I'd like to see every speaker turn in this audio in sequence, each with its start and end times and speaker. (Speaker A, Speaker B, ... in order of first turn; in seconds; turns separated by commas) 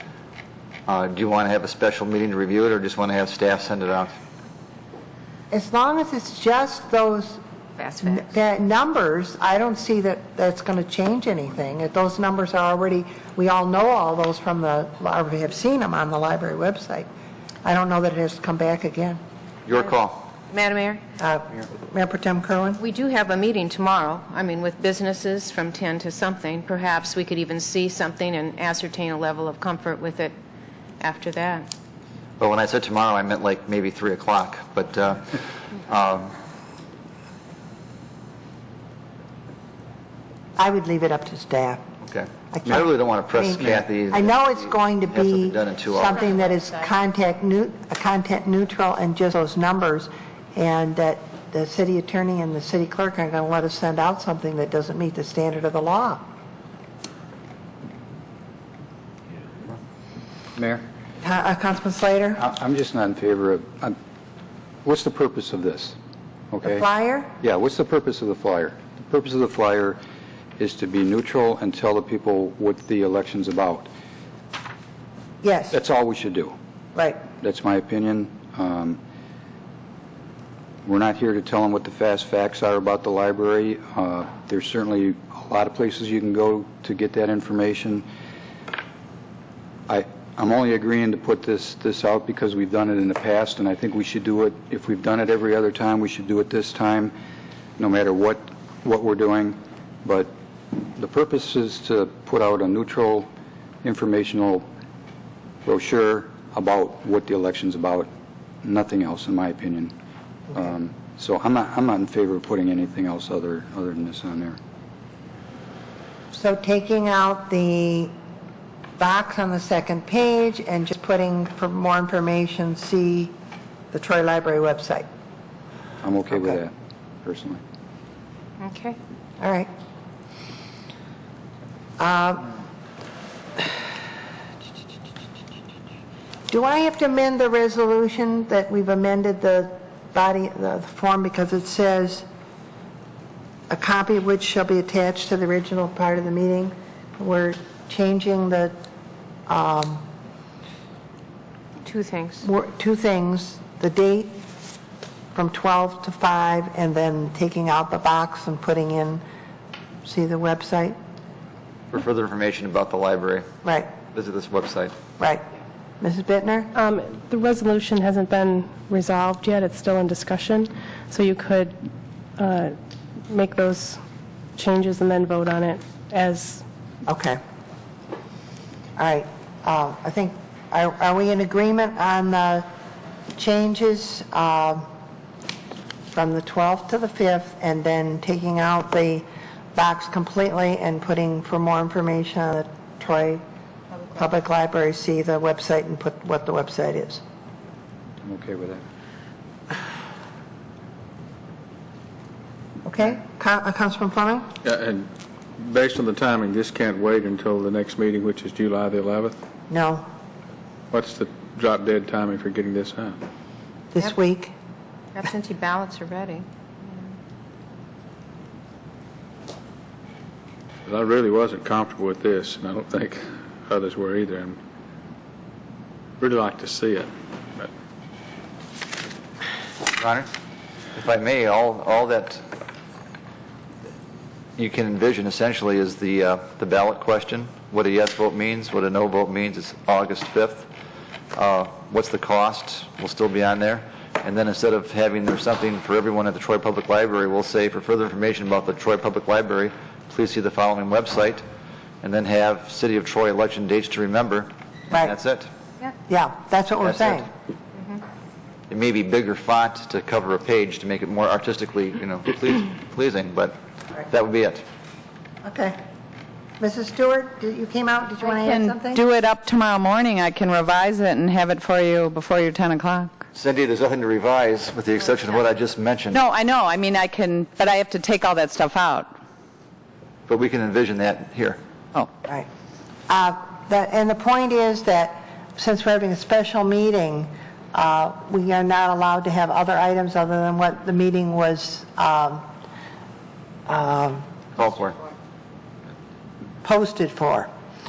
Speaker A: 0.9-4.1, Speaker B: 5.5-7.4, Speaker C: 7.8-8.3, Speaker B: 8.0-17.1, Speaker B: 17.6-19.2, Speaker A: 19.7-20.2, Speaker C: 20.5-21.0, Speaker B: 21.2-22.8, Speaker C: 22.8-30.3, Speaker C: 31.0-31.7, Speaker A: 32.4-36.3, Speaker B: 40.6-41.8, Speaker A: 42.0-46.3, Speaker B: 42.5-56.2, Speaker C: 46.3-46.9, Speaker D: 60.5-60.8, Speaker B: 61.2-62.4, Speaker D: 62.4-64.0, Speaker D: 64.8-66.0, Speaker D: 66.5-66.8, Speaker B: 66.6-67.3, Speaker D: 67.4-70.0, Speaker D: 70.6-73.9, Speaker B: 75.4-75.8, Speaker D: 75.7-76.5, Speaker B: 76.9-77.2, Speaker D: 77.4-79.0, Speaker D: 80.8-88.0, Speaker D: 89.9-97.1, Speaker D: 97.8-103.3, Speaker D: 103.8-104.7, Speaker D: 105.6-108.1, Speaker D: 108.6-109.9, Speaker D: 110.5-114.6, Speaker B: 116.3-118.1, Speaker B: 119.0-123.3, Speaker B: 123.9-125.0, Speaker D: 126.0-126.7, Speaker D: 127.2-127.6, Speaker C: 128.6-129.0, Speaker B: 129.4-129.7, Speaker B: 132.0-132.5, Speaker B: 136.5-142.2, Speaker B: 143.7-148.7, Speaker B: 149.5-150.0, Speaker C: 151.8-152.4, Speaker B: 152.4-154.4, Speaker B: 155.3-159.2, Speaker B: 160.0-160.9, Speaker A: 161.9-163.4, Speaker B: 163.6-163.9, Speaker A: 164.1-164.9, Speaker B: 166.0-166.7, Speaker E: 166.7-171.8, Speaker E: 172.4-172.8, Speaker E: 173.3-174.0, Speaker E: 174.6-176.6, Speaker B: 177.1-177.4, Speaker B: 179.0-182.7, Speaker B: 183.4-184.8, Speaker B: 186.1-193.4, Speaker B: 194.1-197.2, Speaker D: 198.2-198.8, Speaker B: 202.8-204.4, Speaker F: 204.6-209.4, Speaker B: 209.7-210.0, Speaker F: 210.9-213.2, Speaker B: 213.9-214.5, Speaker C: 215.1-217.2, Speaker F: 220.8-224.6, Speaker F: 226.2-227.7, Speaker A: 229.9-230.3, Speaker A: 230.9-232.4, Speaker A: 234.6-240.7, Speaker A: 241.3-251.4, Speaker A: 252.0-255.5, Speaker B: 256.1-257.3, Speaker A: 256.8-257.2, Speaker A: 258.7-263.6, Speaker A: 264.1-264.6, Speaker B: 265.4-265.8, Speaker B: 266.6-269.0, Speaker G: 268.2-273.1, Speaker A: 273.3-276.2, Speaker G: 276.1-279.1, Speaker A: 280.3-281.6, Speaker B: 283.1-292.4, Speaker B: 293.7-294.7, Speaker A: 294.6-294.9, Speaker B: 296.6-297.5